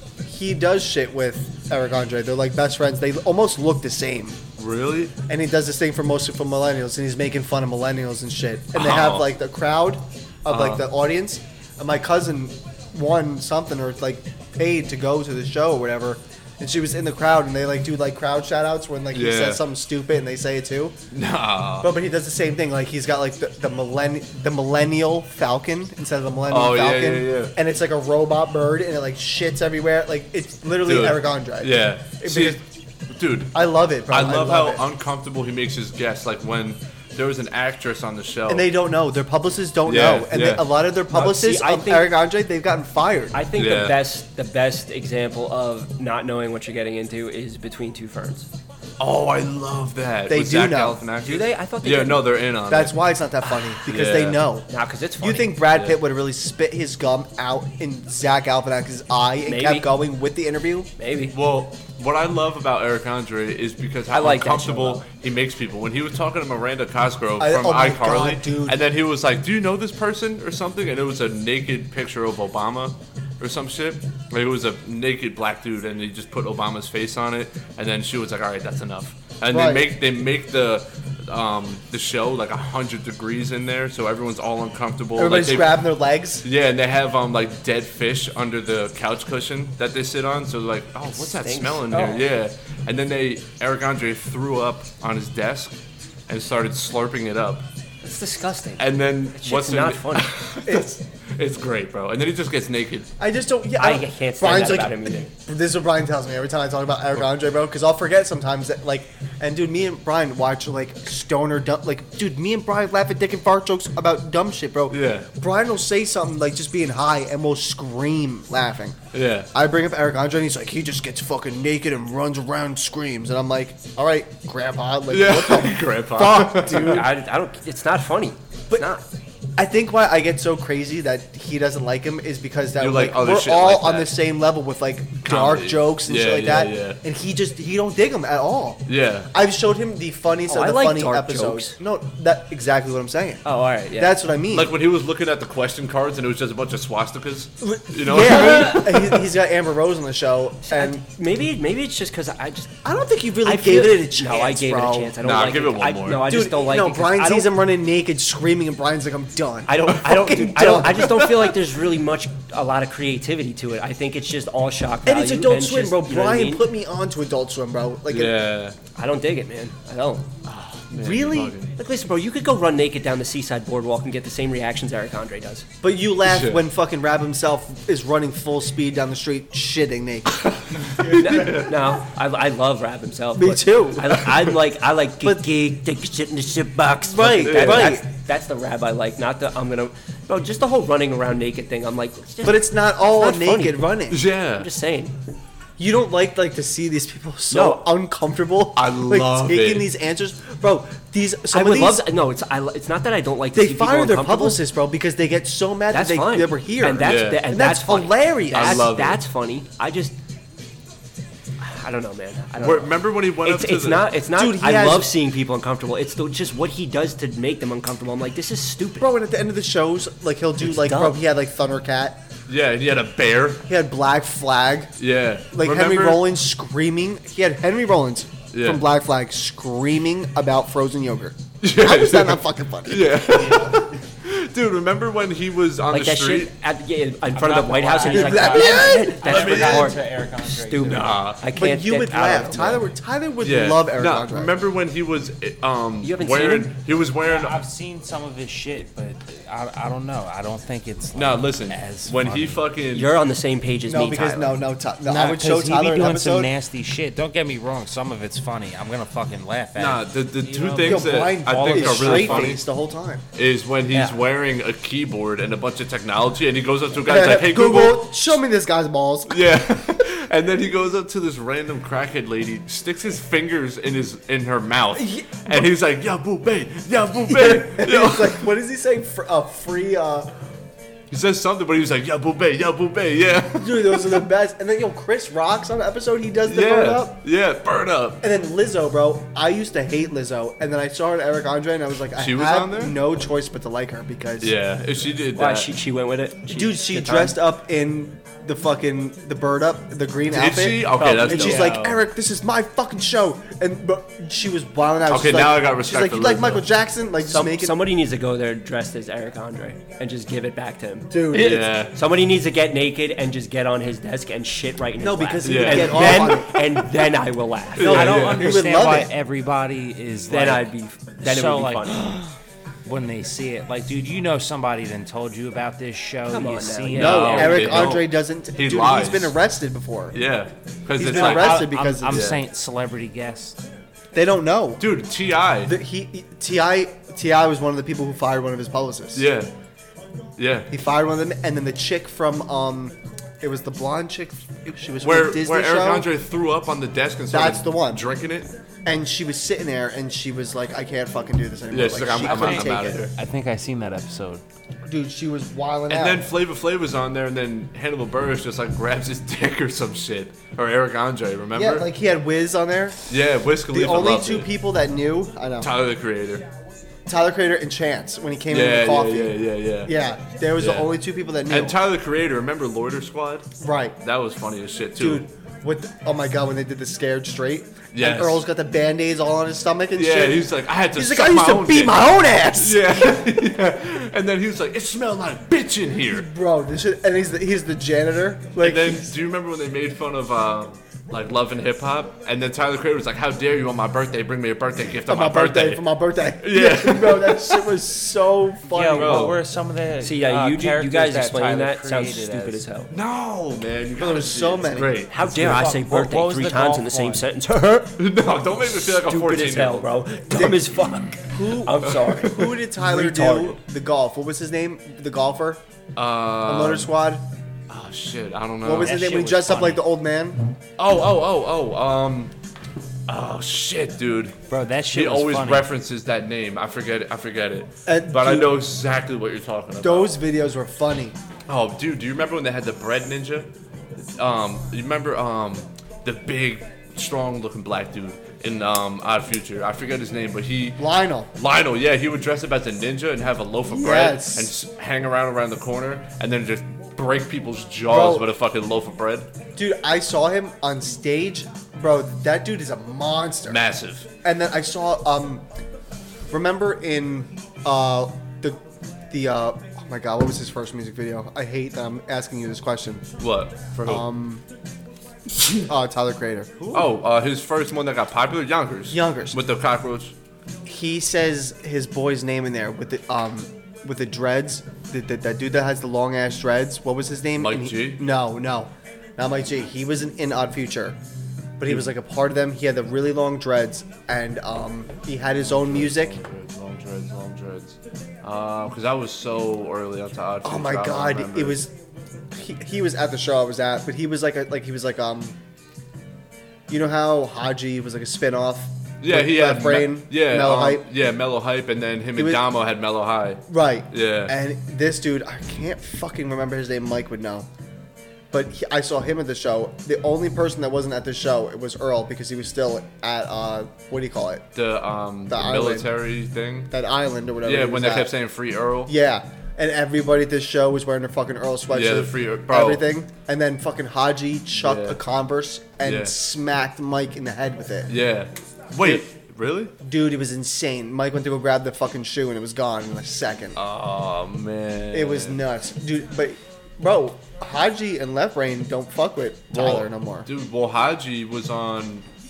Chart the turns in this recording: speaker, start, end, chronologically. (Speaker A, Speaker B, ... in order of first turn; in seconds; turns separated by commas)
Speaker A: 0.2-4.4, Speaker B: 4.6-5.1, Speaker A: 5.3-20.9, Speaker B: 8.7-9.3, Speaker B: 10.5-10.8, Speaker B: 19.1-19.6, Speaker B: 21.1-21.9, Speaker A: 21.8-32.6, Speaker B: 26.5-27.5, Speaker B: 30.9-33.5, Speaker A: 33.5-34.8, Speaker B: 34.1-38.7, Speaker A: 38.5-43.4, Speaker B: 39.9-40.6, Speaker C: 41.1-42.1, Speaker C: 43.3-48.5, Speaker B: 43.5-44.0, Speaker B: 49.0-53.0, Speaker A: 50.3-51.0, Speaker C: 51.2-52.3, Speaker A: 52.7-54.7, Speaker B: 53.9-54.5, Speaker C: 54.7-55.6, Speaker A: 55.2-60.9, Speaker C: 59.5-59.9, Speaker C: 61.0-61.4, Speaker B: 61.3-85.8, Speaker C: 64.1-65.0, Speaker A: 67.4-68.8, Speaker A: 79.5-79.9, Speaker A: 85.2-86.5, Speaker B: 86.4-95.7, Speaker C: 91.1-92.3, Speaker B: 96.3-97.7, Speaker C: 98.0-100.3, Speaker B: 98.8-103.1, Speaker A: 100.7-101.0, Speaker A: 103.2-119.0, Speaker C: 103.8-105.3, Speaker B: 114.9-115.3, Speaker B: 119.1-119.5, Speaker A: 119.5-127.1, Speaker B: 125.1-127.0, Speaker C: 126.7-129.0, Speaker A: 129.6-144.7, Speaker B: 132.8-134.1, Speaker B: 135.2-137.0, Speaker B: 138.9-139.3, Speaker C: 140.5-141.8, Speaker C: 143.4-144.2, Speaker B: 144.5-149.2, Speaker A: 147.6-151.0, Speaker C: 148.4-148.8, Speaker C: 150.6-152.8, Speaker A: 152.8-155.2, Speaker C: 153.4-157.5, Speaker B: 155.2-156.3, Speaker A: 156.2-161.1, Speaker C: 159.7-166.7, Speaker B: 161.1-161.6, Speaker A: 165.1-168.3, Speaker B: 168.1-168.8, Speaker C: 169.0-170.3, Speaker B: 170.5-171.8, Speaker A: 170.9-171.6, Speaker C: 171.8-175.7, Speaker A: 175.8-180.4, Speaker B: 176.2-176.6, Speaker B: 180.4-181.7, Speaker A: 181.0-181.6, Speaker C: 181.0-193.8, Speaker A: 183.4-184.3, Speaker A: 187.1-188.1, Speaker B: 187.2-188.0, Speaker A: 192.4-194.2, Speaker B: 194.1-194.7, Speaker C: 194.6-195.1, Speaker A: 195.8-202.1, Speaker C: 197.5-197.8, Speaker B: 198.8-199.9, Speaker C: 201.5-204.6, Speaker A: 203.5-208.9, Speaker C: 205.9-210.2, Speaker B: 207.0-207.5, Speaker B: 208.5-209.2, Speaker C: 211.6-219.1, Speaker B: 212.6-214.1, Speaker A: 214.4-215.1, Speaker A: 219.0-222.2, Speaker C: 220.7-221.2, Speaker B: 222.5-223.6, Speaker A: 223.7-224.9, Speaker B: 225.0-226.2, Speaker A: 225.5-233.2, Speaker B: 228.5-228.8, Speaker B: 231.6-236.5, Speaker D: 233.4-233.9, Speaker C: 235.9-242.9, Speaker D: 237.3-241.2, Speaker A: 238.0-239.8, Speaker B: 239.2-240.0, Speaker B: 240.9-241.4, Speaker A: 241.5-244.5, Speaker B: 243.4-247.6, Speaker C: 246.0-246.7, Speaker D: 247.2-252.6, Speaker B: 251.2-253.1, Speaker C: 252.9-254.6, Speaker A: 253.9-256.5, Speaker D: 255.1-262.6, Speaker B: 259.8-262.6, Speaker A: 260.8-263.2, Speaker B: 263.4-268.4, Speaker A: 267.1-270.0, Speaker B: 269.3-278.5, Speaker A: 275.0-275.7, Speaker A: 277.3-280.3, Speaker B: 281.1-284.3, Speaker A: 283.6-287.2, Speaker B: 286.5-288.2, Speaker A: 288.2-294.5, Speaker B: 292.2-292.9, Speaker B: 294.4-295.7, Speaker C: 295.4-297.4, Speaker A: 296.5-307.8, Speaker B: 300.3-301.9, Speaker C: 301.0-301.9, Speaker D: 301.5-302.0, Speaker B: 305.1-306.7, Speaker C: 307.2-318.1, Speaker A: 311.1-311.7, Speaker B: 311.3-311.9, Speaker A: 315.0-316.5, Speaker B: 315.4-316.6, Speaker B: 317.8-318.6, Speaker A: 317.8-319.1, Speaker D: 317.8-320.7, Speaker C: 320.3-322.2, Speaker D: 321.2-322.3, Speaker D: 322.9-327.7, Speaker C: 326.3-327.9, Speaker B: 326.9-329.4, Speaker A: 326.9-330.2, Speaker B: 330.1-332.4, Speaker A: 331.0-332.3, Speaker D: 331.0-333.6, Speaker A: 334.1-334.9, Speaker B: 334.8-335.7, Speaker A: 335.6-339.3, Speaker B: 339.1-339.5, Speaker B: 340.4-340.7, Speaker A: 340.7-346.1, Speaker B: 345.0-348.5, Speaker A: 347.3-348.0, Speaker A: 348.9-353.1, Speaker B: 351.7-353.1, Speaker D: 352.2-354.4, Speaker A: 354.9-356.3, Speaker B: 355.9-361.9, Speaker A: 361.6-363.1, Speaker B: 363.1-364.5, Speaker A: 363.7-365.7, Speaker B: 365.6-366.4, Speaker A: 367.1-371.8, Speaker B: 368.5-369.9, Speaker B: 370.6-370.9, Speaker B: 371.5-375.2, Speaker A: 373.6-374.0, Speaker A: 375.0-383.1, Speaker B: 377.9-378.4, Speaker B: 380.0-386.3, Speaker A: 386.1-389.1, Speaker B: 388.6-397.8, Speaker A: 395.1-399.3, Speaker D: 398.7-402.6, Speaker B: 398.9-399.4, Speaker C: 400.0-402.9, Speaker B: 402.9-405.8, Speaker A: 404.0-405.0, Speaker C: 405.1-408.0, Speaker D: 405.2-407.2, Speaker B: 408.0-409.9, Speaker C: 408.8-413.6, Speaker A: 410.3-415.6, Speaker B: 411.9-412.1, Speaker B: 416.0-416.9, Speaker A: 416.4-417.2, Speaker B: 417.7-419.0, Speaker A: 418.6-420.4, Speaker D: 418.8-419.6, Speaker C: 419.2-419.5, Speaker B: 420.8-422.3, Speaker B: 423.1-424.4, Speaker D: 424.5-425.7, Speaker B: 424.9-430.1, Speaker A: 427.9-428.5, Speaker A: 429.8-431.2, Speaker B: 431.5-433.5, Speaker B: 434.2-449.3, Speaker A: 440.8-441.3, Speaker A: 443.7-444.5, Speaker A: 447.9-448.3, Speaker A: 449.6-453.6, Speaker B: 453.5-454.1, Speaker A: 454.2-455.4, Speaker A: 456.3-458.6, Speaker A: 459.1-463.0, Speaker B: 463.2-464.1, Speaker A: 463.8-464.4, Speaker A: 465.6-466.9, Speaker B: 466.7-470.1, Speaker A: 468.9-469.4, Speaker A: 470.6-481.0, Speaker B: 477.4-478.0, Speaker A: 481.6-486.2, Speaker B: 485.5-491.6, Speaker A: 490.4-491.7, Speaker A: 492.3-495.4, Speaker A: 496.7-500.9, Speaker B: 499.0-504.4, Speaker A: 502.2-502.4, Speaker A: 503.5-507.5, Speaker A: 508.3-514.5, Speaker B: 514.6-516.7, Speaker A: 515.3-515.9, Speaker A: 516.7-518.1, Speaker B: 517.4-518.9, Speaker A: 518.9-527.9, Speaker B: 521.7-522.9, Speaker B: 524.5-525.0, Speaker B: 525.8-526.1, Speaker B: 527.9-529.7, Speaker A: 529.8-533.6, Speaker B: 533.6-535.4, Speaker A: 534.9-540.3, Speaker B: 539.5-542.0